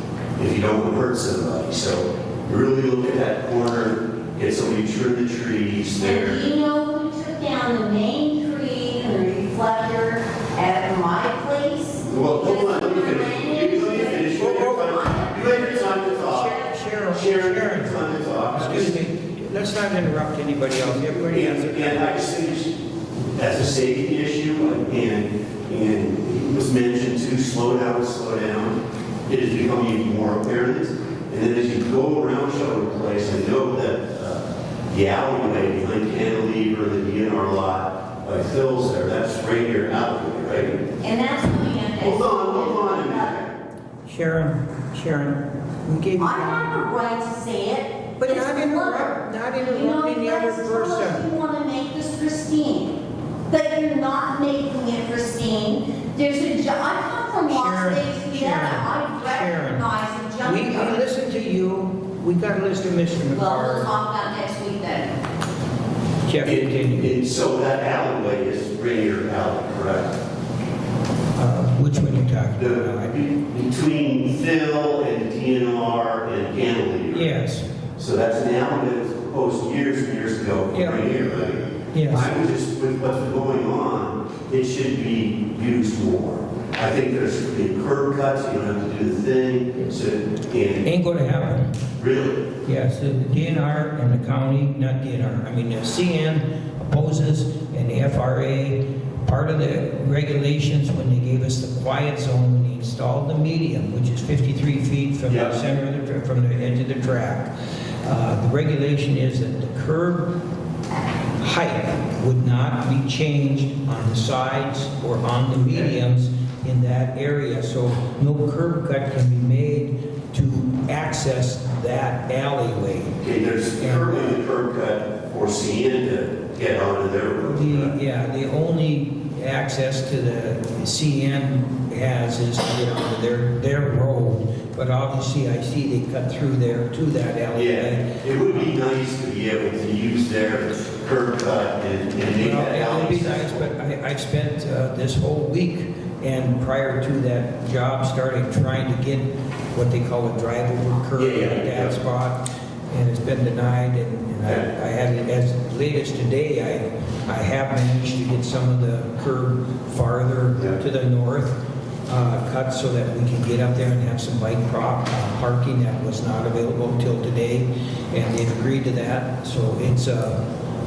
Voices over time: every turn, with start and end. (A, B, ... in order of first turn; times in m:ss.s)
0:00.4-0:06.4 A
0:06.0-0:16.9 B
0:12.0-0:19.0 A
0:14.3-0:15.0 C
0:16.2-0:22.1 C
0:21.1-0:40.8 A
0:41.0-0:43.3 B
0:42.0-0:43.5 A
0:44.0-0:46.6 C
0:46.2-1:01.0 B
0:48.2-0:51.3 C
0:57.5-0:59.9 C
1:00.4-1:03.9 C
1:03.3-1:05.2 B
1:06.2-1:07.1 C
1:06.4-1:10.2 A
1:11.4-1:13.1 C
1:12.6-1:17.3 A
1:17.1-1:17.6 C
1:18.0-1:30.9 A
1:20.7-1:21.1 C
1:21.9-1:22.3 C
1:30.8-1:31.7 C
1:32.0-1:32.5 A
1:32.6-1:47.5 C
1:45.3-1:45.6 A
1:48.0-1:50.3 C
1:51.4-2:03.2 C
2:03.2-2:08.0 A
2:03.8-2:04.3 C
2:07.4-2:18.7 C
2:17.5-2:23.7 A
2:22.4-2:50.4 C
2:31.1-2:32.0 A
2:34.4-2:34.7 A